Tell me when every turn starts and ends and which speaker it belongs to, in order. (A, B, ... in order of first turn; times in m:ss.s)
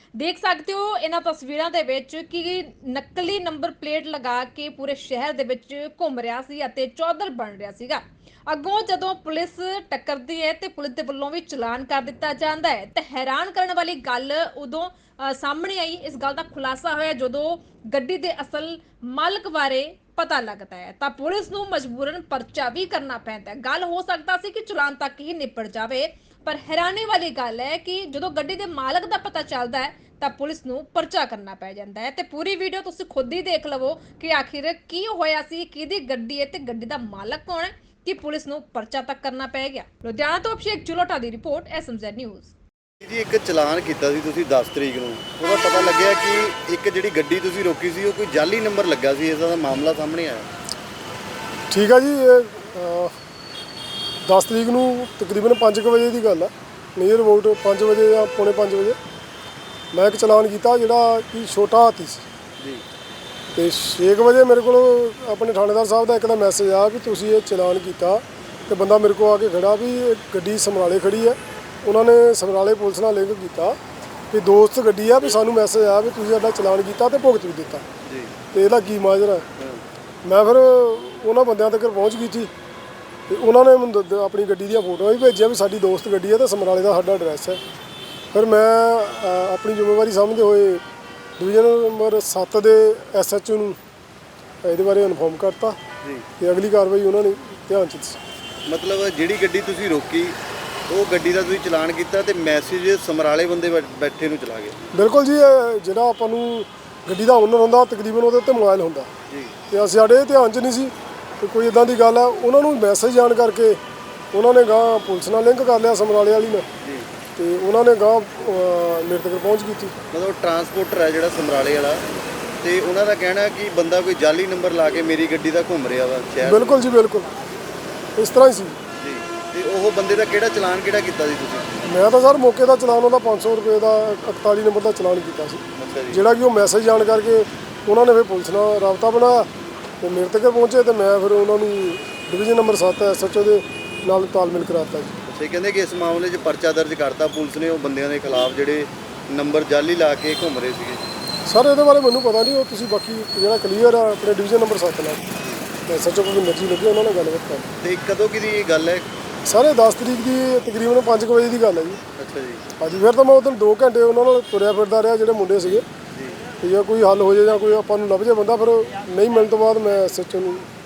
0:00.2-0:42.5 A
0:43.0-0:50.5 B
0:51.7-0:53.1 C
0:54.2-0:59.0 C
0:59.9-1:02.2 C
1:03.5-1:13.8 C
1:14.3-1:17.8 C
1:18.0-1:18.3 B
1:18.5-1:19.4 C
1:19.6-1:19.8 B
1:20.2-1:22.5 C
1:23.3-1:27.6 C
1:28.3-1:30.8 C
1:31.4-1:33.8 C
1:34.6-1:35.8 C
1:36.4-1:38.2 C
1:38.7-1:40.4 B
1:40.9-1:44.8 B
1:44.9-1:49.1 C
1:49.3-1:49.5 B
1:49.7-1:53.8 C
1:54.3-1:56.7 C
1:56.8-1:57.1 B
1:57.4-2:00.0 C
2:00.1-2:02.0 B
2:02.6-2:06.8 B
2:06.4-2:07.3 C
2:08.2-2:08.8 C
2:09.0-2:11.9 B
2:11.8-2:19.5 C
2:15.8-2:16.2 B
2:20.0-2:25.1 C
2:25.3-2:31.0 B
2:31.5-2:35.2 C
2:35.4-2:35.6 B
2:35.9-2:37.7 C
2:37.8-2:39.1 B
2:39.5-2:42.0 C
2:42.2-2:42.6 B
2:42.8-2:45.8 C
2:46.1-2:46.4 B
2:46.6-2:50.7 C